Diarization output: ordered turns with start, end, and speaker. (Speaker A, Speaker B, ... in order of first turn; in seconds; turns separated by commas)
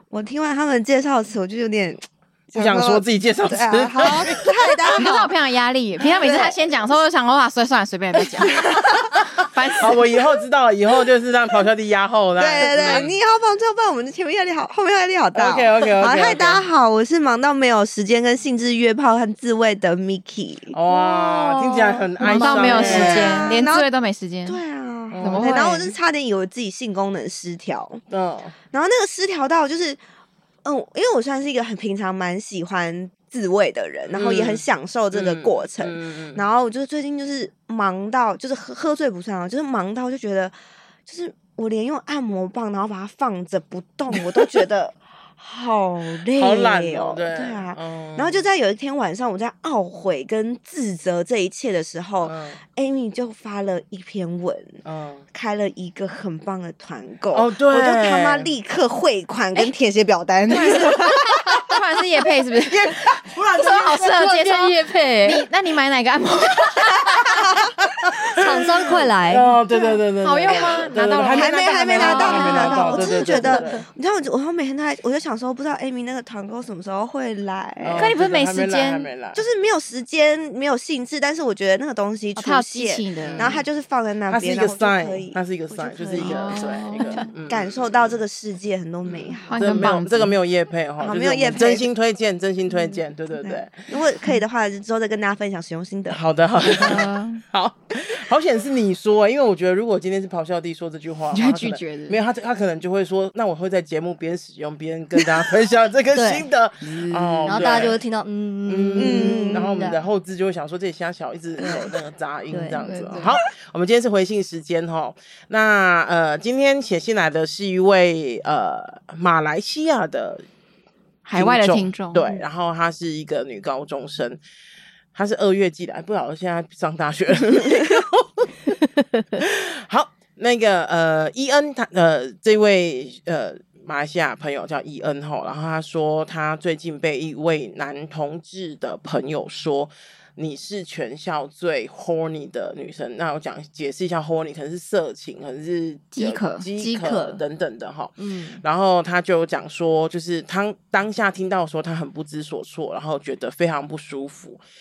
Speaker A: 0.1-5.3, Speaker B: 2.5-4.4, Speaker C: 4.9-10.1, Speaker A: 6.2-7.0, Speaker A: 8.3-9.2, Speaker B: 9.2-13.1, Speaker A: 12.4-23.9, Speaker C: 12.7-13.1, Speaker B: 15.3-16.6, Speaker B: 20.7-23.5, Speaker C: 22.2-24.6, Speaker A: 24.4-28.0, Speaker B: 25.1-25.8, Speaker C: 25.2-25.9, Speaker B: 28.1-28.5, Speaker A: 28.7-30.0, Speaker A: 30.6-40.5, Speaker B: 34.1-36.5, Speaker A: 41.0-61.8, Speaker B: 44.1-44.6, Speaker B: 46.2-48.5, Speaker B: 52.2-52.6, Speaker B: 54.8-55.2, Speaker B: 57.3-58.5, Speaker B: 60.5-61.0, Speaker C: 60.5-63.0, Speaker B: 62.7-64.5, Speaker C: 63.6-67.4, Speaker D: 64.3-65.5, Speaker A: 67.4-67.7, Speaker B: 67.8-73.8, Speaker D: 68.3-69.5, Speaker A: 69.7-78.1, Speaker C: 70.2-73.5, Speaker D: 73.1-73.8, Speaker B: 77.8-79.4, Speaker C: 78.0-79.1, Speaker A: 79.3-89.9, Speaker C: 82.3-83.6, Speaker B: 83.2-83.6, Speaker B: 84.3-88.2, Speaker C: 86.2-87.3, Speaker B: 89.0-93.9, Speaker C: 89.5-90.3, Speaker A: 91.0-91.9, Speaker A: 92.7-96.2, Speaker B: 96.1-108.0, Speaker C: 96.7-97.4, Speaker C: 101.3-102.2, Speaker D: 106.1-106.5, Speaker C: 106.8-107.8, Speaker D: 107.5-110.0, Speaker B: 108.7-120.4, Speaker A: 109.0-109.8, Speaker D: 111.6-111.9, Speaker D: 112.5-112.8, Speaker C: 112.8-113.3, Speaker C: 121.2-122.3, Speaker B: 121.3-124.4, Speaker B: 125.1-128.5, Speaker B: 129.3-154.6, Speaker C: 146.1-146.7, Speaker D: 146.8-147.4, Speaker D: 148.2-148.6